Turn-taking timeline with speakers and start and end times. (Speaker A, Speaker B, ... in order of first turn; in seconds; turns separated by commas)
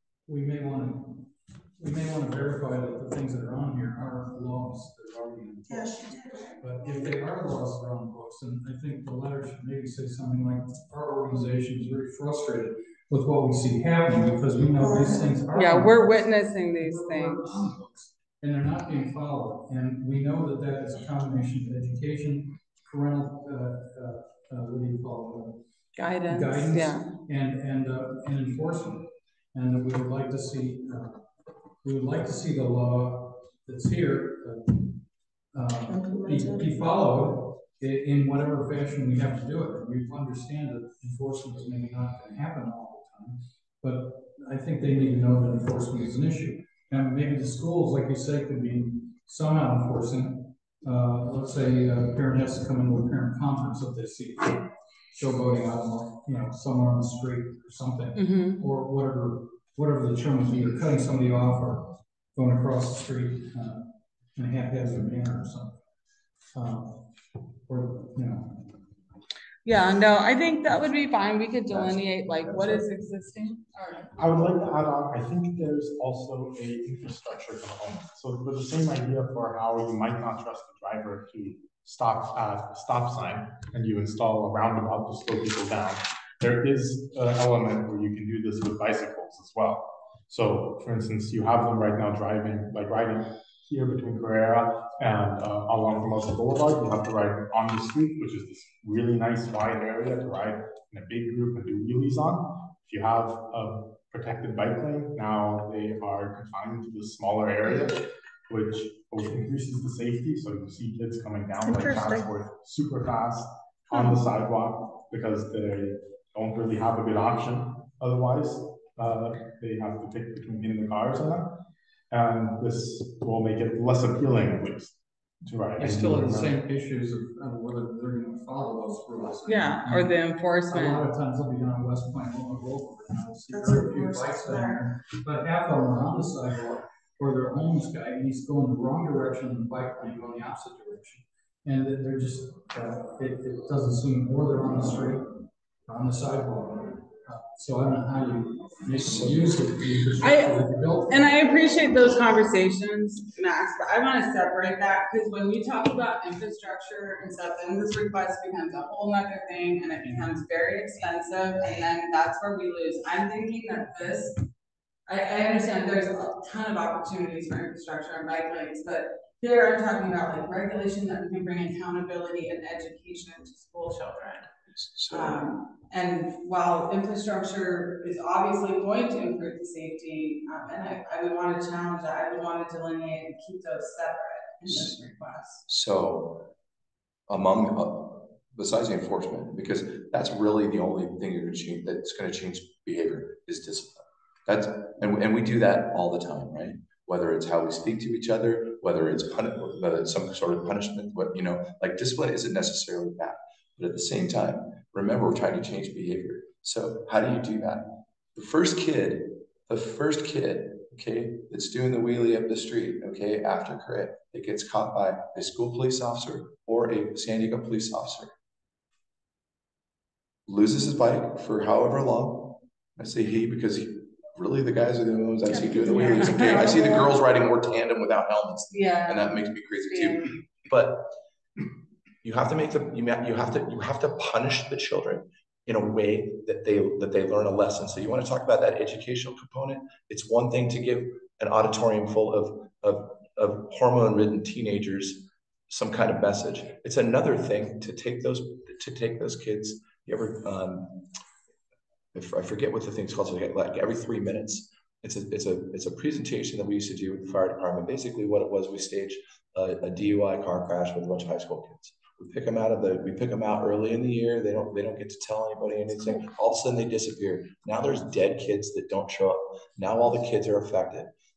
Speaker A: 0.3-5.9, Speaker B: 5.7-7.1, Speaker A: 6.6-25.6, Speaker B: 14.8-15.3, Speaker C: 15.5-17.7, Speaker C: 25.9-27.1, Speaker A: 26.2-31.3, Speaker A: 31.8-34.9, Speaker A: 35.5-65.8, Speaker B: 35.9-36.7, Speaker C: 58.1-58.6, Speaker A: 66.5-67.1, Speaker A: 67.7-68.6, Speaker C: 69.6-74.5, Speaker D: 71.7-72.8, Speaker E: 74.2-121.5, Speaker B: 111.6-112.3, Speaker E: 122.1-126.6, Speaker A: 125.8-151.3, Speaker C: 129.4-131.1, Speaker B: 133.5-134.8, Speaker D: 148.9-149.5, Speaker C: 150.2-164.4, Speaker A: 160.0-160.3, Speaker C: 165.1-174.5, Speaker D: 174.7-175.4, Speaker C: 175.1-185.6, Speaker D: 184.6-185.0, Speaker D: 185.7-186.5, Speaker D: 187.3-218.3, Speaker D: 220.5-231.1, Speaker C: 225.6-227.0, Speaker B: 225.6-227.0, Speaker C: 228.7-230.3, Speaker D: 232.2-251.1, Speaker D: 252.1-271.1